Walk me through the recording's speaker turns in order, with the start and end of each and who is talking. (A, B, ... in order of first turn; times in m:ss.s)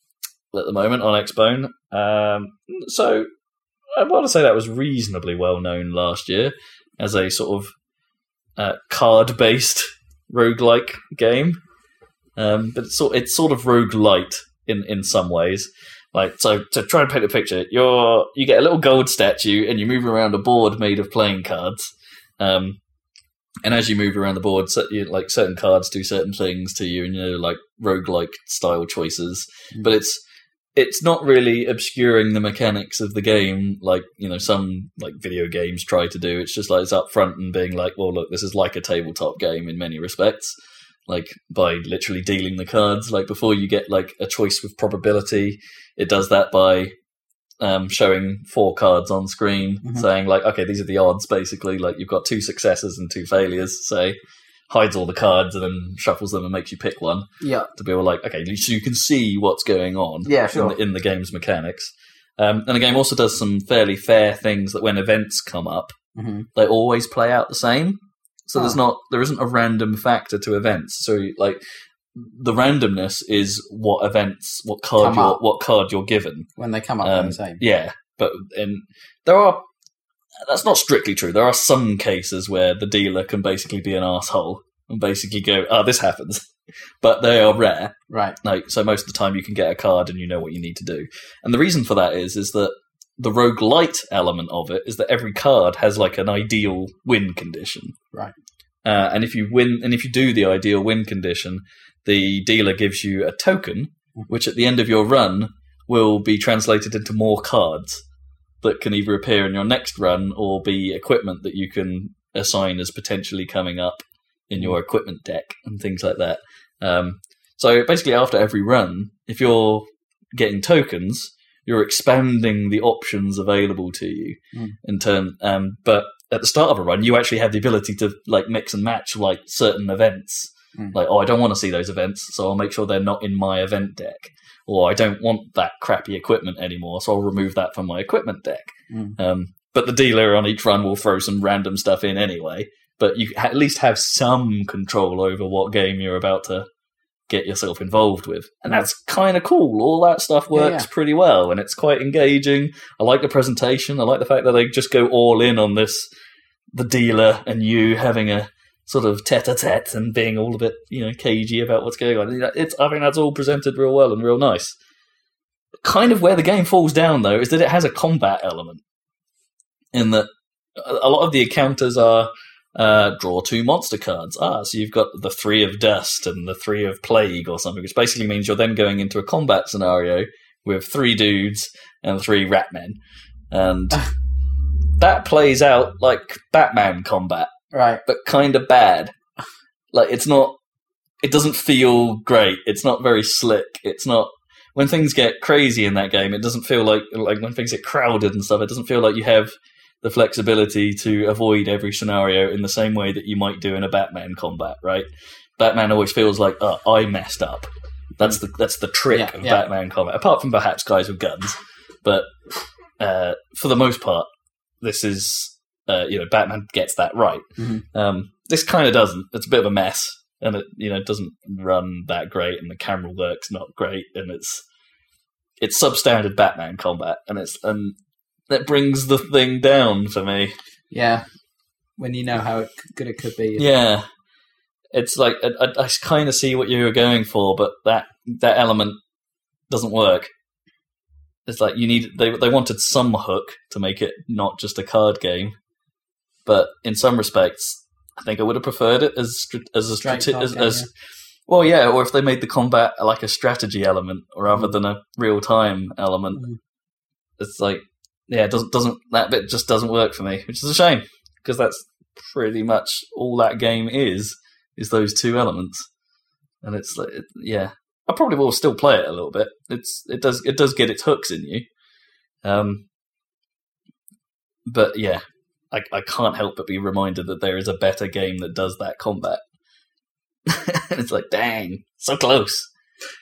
0:00.5-0:03.3 A
0:04.0-0:07.7 A
0:08.6-0:11.6 A
0:12.4-0:22.8 A
0:23.6-0:30.2 A
0:30.8-0:40.6 A
0:41.1-0:46.9 A
0:47.6-0:54.2 A
0:54.7-1:05.9 A
0:57.4-0:57.7 B
1:00.3-1:00.8 B
1:06.2-1:06.5 B
1:06.6-1:11.6 A
1:12.1-1:16.5 A
1:15.0-1:15.4 B
1:16.6-1:17.6 B
1:17.0-1:19.6 A
1:20.4-1:26.5 A
1:27.0-1:38.0 A
1:28.1-1:28.4 B
1:38.8-1:48.0 A
1:48.6-2:26.7 A
2:18.9-2:19.2 B
2:27.3-2:36.1 A
2:30.5-2:30.9 B
2:36.7-2:44.8 A
2:45.8-2:48.8 A
2:49.9-3:03.0 A
3:03.5-3:04.0 A
3:05.0-3:07.5 A
3:07.7-3:08.0 B
3:08.1-3:09.1 A
3:09.9-3:10.6 A
3:11.2-3:25.1 A
3:25.6-3:32.3 A
3:29.1-3:29.6 B
3:33.0-3:34.3 A
3:34.8-3:44.6 A
3:37.6-3:37.8 B
3:45.6-3:48.0 A
3:48.5-3:50.6 A
3:50.9-3:51.2 B
3:52.0-3:53.7 B
3:53.6-3:54.0 A
3:54.9-3:59.0 A
3:59.7-4:00.3 A
4:01.5-4:05.5 A
4:06.5-4:10.9 A
4:10.0-4:10.9 B
4:11.5-4:16.4 A
4:17.4-4:25.8 A
4:26.6-4:31.7 A
4:32.4-4:32.8 A
4:34.7-4:39.4 A
4:40.5-4:42.7 A